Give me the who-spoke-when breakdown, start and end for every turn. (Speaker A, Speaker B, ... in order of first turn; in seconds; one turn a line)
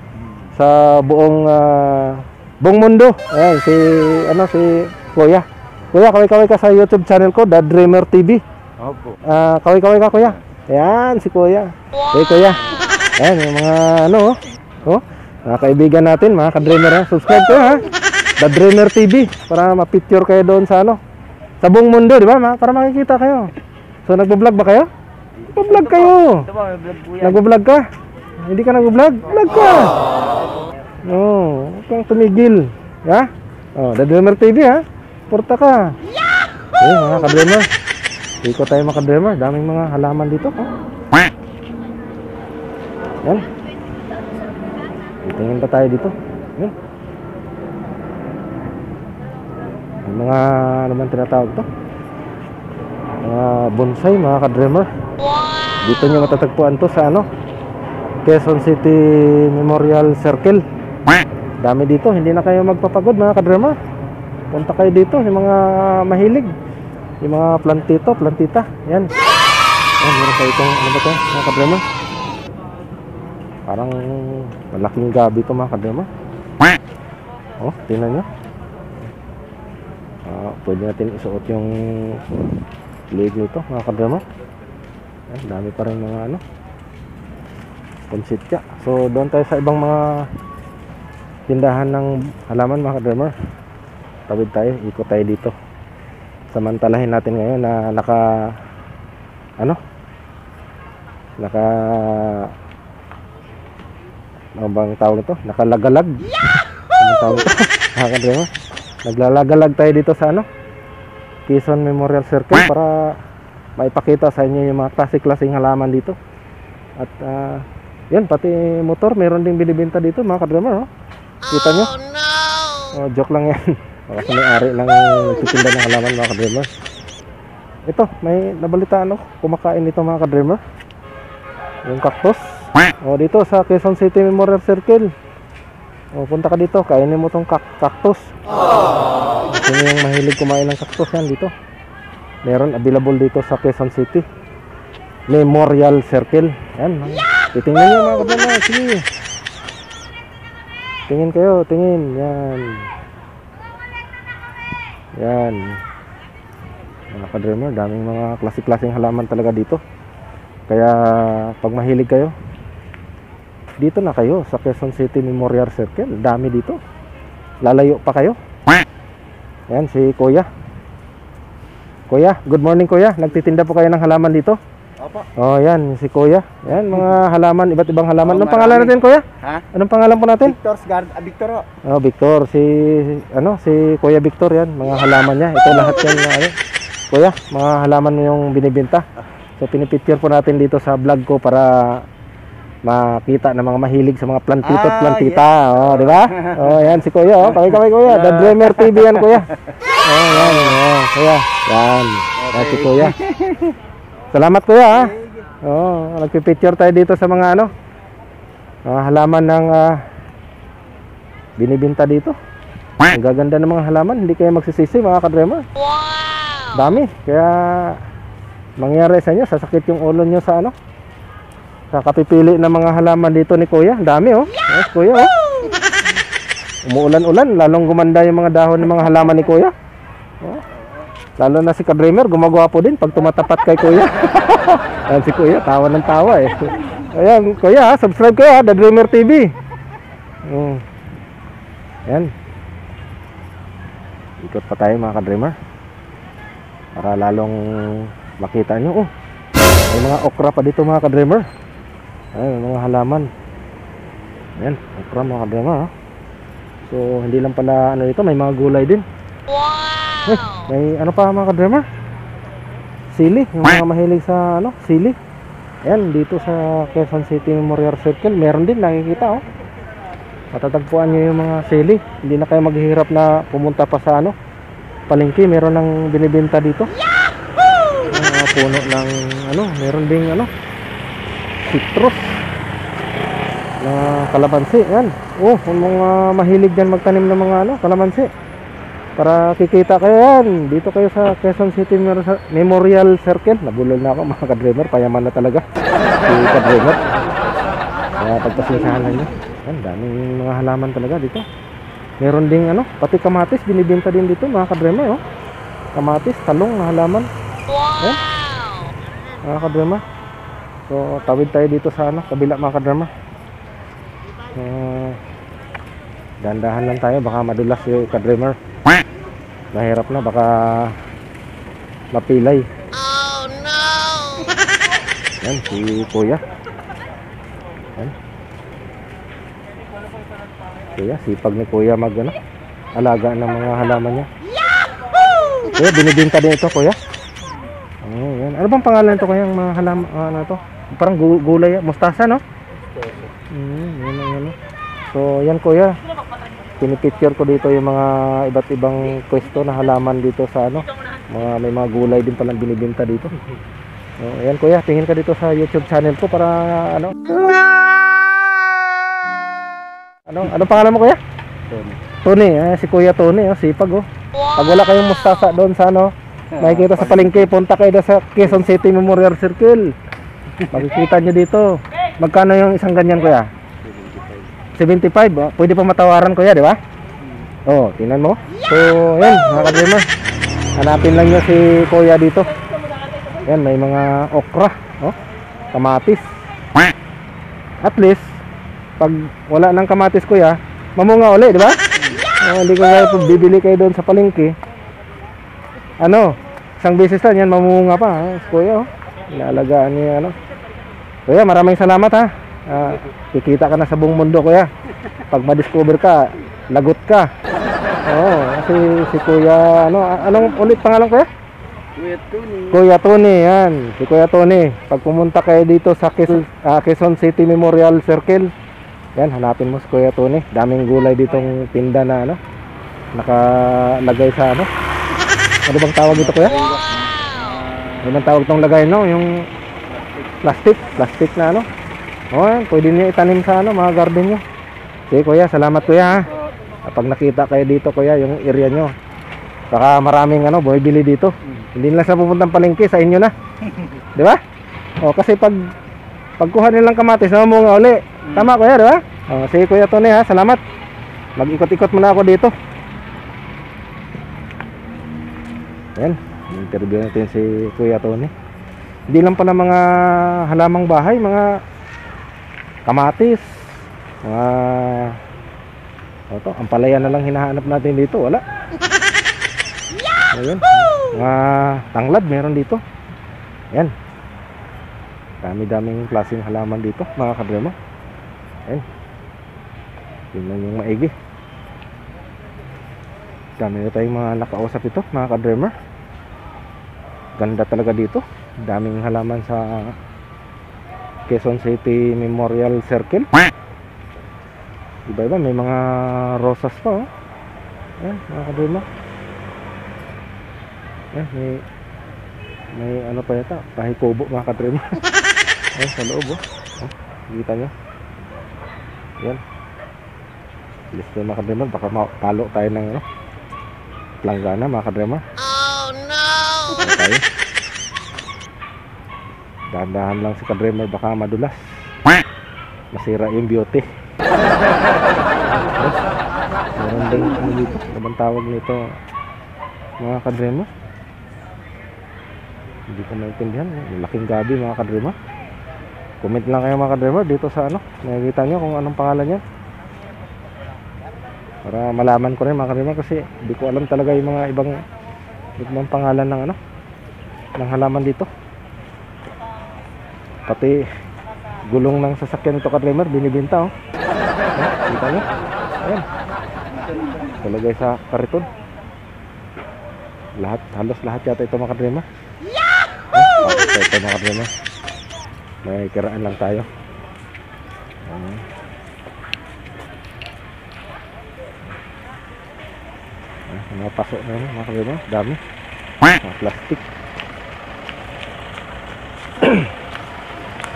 Speaker A: 0.6-8.4
Speaker B: 8.8-9.2
Speaker A: 9.2-12.6
Speaker A: 13.2-17.9
Speaker A: 18.4-21.0
Speaker A: 21.6-23.5
Speaker A: 24.1-24.9
Speaker B: 25.5-27.4
Speaker A: 25.5-26.5
Speaker A: 27.2-27.9
Speaker A: 28.5-30.0
Speaker A: 31.1-36.0
Speaker A: 36.8-37.7
Speaker A: 38.4-40.7
Speaker A: 45.2-46.7
Speaker A: 50.1-51.7
Speaker A: 53.2-54.9
Speaker A: 55.9-57.3
Speaker A: 58.2-60.6
Speaker A: 61.6-63.8
Speaker A: 64.5-66.5
Speaker A: 67.2-69.1
Speaker A: 70.0-71.8
Speaker A: 73.7-76.1
Speaker A: 77.6-78.3
Speaker A: 80.3-82.2
Speaker A: 83.1-84.2
Speaker A: 85.3-86.4
Speaker A: 88.1-90.3
Speaker A: 91.5-93.3
Speaker A: 94.3-95.5
Speaker A: 96.5-98.5
Speaker A: 101.4-102.5
Speaker A: 104.6-106.3
Speaker A: 107.0-108.5
Speaker A: 109.0-110.5
Speaker A: 111.5-113.2
Speaker A: 113.8-116.2
Speaker A: 117.0-120.9
Speaker A: 121.5-122.0
Speaker A: 123.0-126.7
Speaker A: 127.9-130.6
Speaker A: 131.9-135.1
Speaker A: 136.1-138.3
Speaker A: 139.5-141.5
Speaker A: 142.4-144.2
Speaker A: 145.3-149.1
Speaker A: 151.1-152.9
Speaker A: 155.2-155.8
Speaker A: 157.1-159.8
Speaker A: 160.7-162.3
Speaker A: 163.8-166.8
Speaker A: 167.6-168.4
Speaker A: 169.7-170.5
Speaker A: 172.1-174.6
Speaker B: 175.0-175.3
Speaker A: 175.4-180.6
Speaker B: 178.2-179.7
Speaker B: 180.4-181.7
Speaker A: 181.9-186.6
Speaker A: 187.1-189.1
Speaker A: 189.6-192.1
Speaker A: 192.8-199.5
Speaker B: 194.6-196.8
Speaker B: 198.1-199.1
Speaker A: 200.1-203.2
Speaker B: 200.4-200.7
Speaker B: 202.4-203.7
Speaker A: 204.3-207.7
Speaker B: 204.9-205.5
Speaker A: 208.9-210.0
Speaker A: 211.6-212.4
Speaker A: 213.1-215.6
Speaker A: 216.8-218.0
Speaker A: 218.8-220.8
Speaker A: 221.9-225.3
Speaker A: 226.9-229.7
Speaker A: 231.4-239.5
Speaker A: 240.4-240.8
Speaker A: 242.1-242.3
Speaker A: 244.4-245.6
Speaker A: 247.0-249.1
Speaker A: 249.9-251.5
Speaker A: 252.3-253.3
Speaker A: 254.6-255.9
Speaker A: 256.8-259.1
Speaker A: 260.3-261.9
Speaker A: 263.1-265.2
Speaker A: 265.9-269.4
Speaker A: 270.5-274.4
Speaker A: 275.1-276.9
Speaker A: 278.1-280.5
Speaker A: 281.7-282.2
Speaker A: 283.8-288.3
Speaker A: 289.2-295.6
Speaker A: 296.2-297.0
Speaker A: 298.2-301.4
Speaker A: 302.2-305.2
Speaker A: 306.0-307.3
Speaker A: 309.4-310.0
Speaker A: 310.9-313.1
Speaker A: 314.5-315.2
Speaker A: 316.4-318.6
Speaker A: 319.7-321.0
Speaker A: 322.1-322.7
Speaker A: 325.4-326.4
Speaker A: 330.9-332.4
Speaker A: 333.0-334.3
Speaker A: 335.6-337.0
Speaker A: 338.0-342.4
Speaker B: 343.0-343.3
Speaker A: 343.5-346.0
Speaker A: 346.8-353.4
Speaker A: 354.2-357.4
Speaker A: 360.3-361.2
Speaker B: 361.7-362.0
Speaker A: 362.2-369.9
Speaker B: 366.6-366.9
Speaker A: 370.7-373.5
Speaker B: 373.9-374.4
Speaker A: 374.8-376.8
Speaker A: 377.7-380.1
Speaker A: 380.8-382.5
Speaker A: 383.4-385.2
Speaker A: 385.7-386.2
Speaker A: 387.8-388.2
Speaker A: 389.0-391.8
Speaker A: 392.4-394.6
Speaker A: 396.0-400.4
Speaker A: 401.3-404.7
Speaker A: 405.3-407.3
Speaker A: 408.1-411.3
Speaker B: 412.0-412.8
Speaker A: 412.7-418.5
Speaker A: 419.2-422.4
Speaker A: 423.1-424.7
Speaker A: 425.7-426.6
Speaker B: 426.6-427.5
Speaker A: 428.0-429.4
Speaker A: 430.4-431.7
Speaker A: 432.3-434.4
Speaker A: 435.1-436.3
Speaker A: 436.9-438.9
Speaker A: 439.7-443.3
Speaker A: 444.1-444.4
Speaker A: 445.0-445.7
Speaker A: 446.4-450.6
Speaker A: 451.4-452.5
Speaker A: 456.0-458.3
Speaker A: 459.1-461.6
Speaker A: 462.9-463.5
Speaker A: 464.2-465.2
Speaker A: 466.3-468.4
Speaker A: 470.3-472.8
Speaker A: 475.4-477.8
Speaker A: 480.3-481.1
Speaker A: 483.6-485.7
Speaker A: 487.4-490.0
Speaker A: 491.3-493.3
Speaker A: 495.1-497.1
Speaker A: 498.0-498.9
Speaker A: 501.1-501.6
Speaker A: 502.8-505.0
Speaker A: 505.8-507.7
Speaker A: 510.9-513.0
Speaker A: 514.2-515.2
Speaker A: 516.8-517.2
Speaker A: 519.7-521.6
Speaker A: 522.9-523.9
Speaker A: 526.8-528.9
Speaker A: 530.0-530.7
Speaker A: 532.9-535.2
Speaker A: 536.2-539.4
Speaker A: 541.7-544.8
Speaker A: 545.6-546.6
Speaker A: 547.6-548.3
Speaker A: 550.5-550.8
Speaker A: 551.7-553.7
Speaker A: 554.6-555.2
Speaker A: 557.4-558.5
Speaker A: 560.4-562.0
Speaker A: 563.1-564.5
Speaker A: 565.6-566.7
Speaker A: 568.1-568.5
Speaker A: 573.5-575.4
Speaker A: 576.2-576.8
Speaker A: 579.4-579.7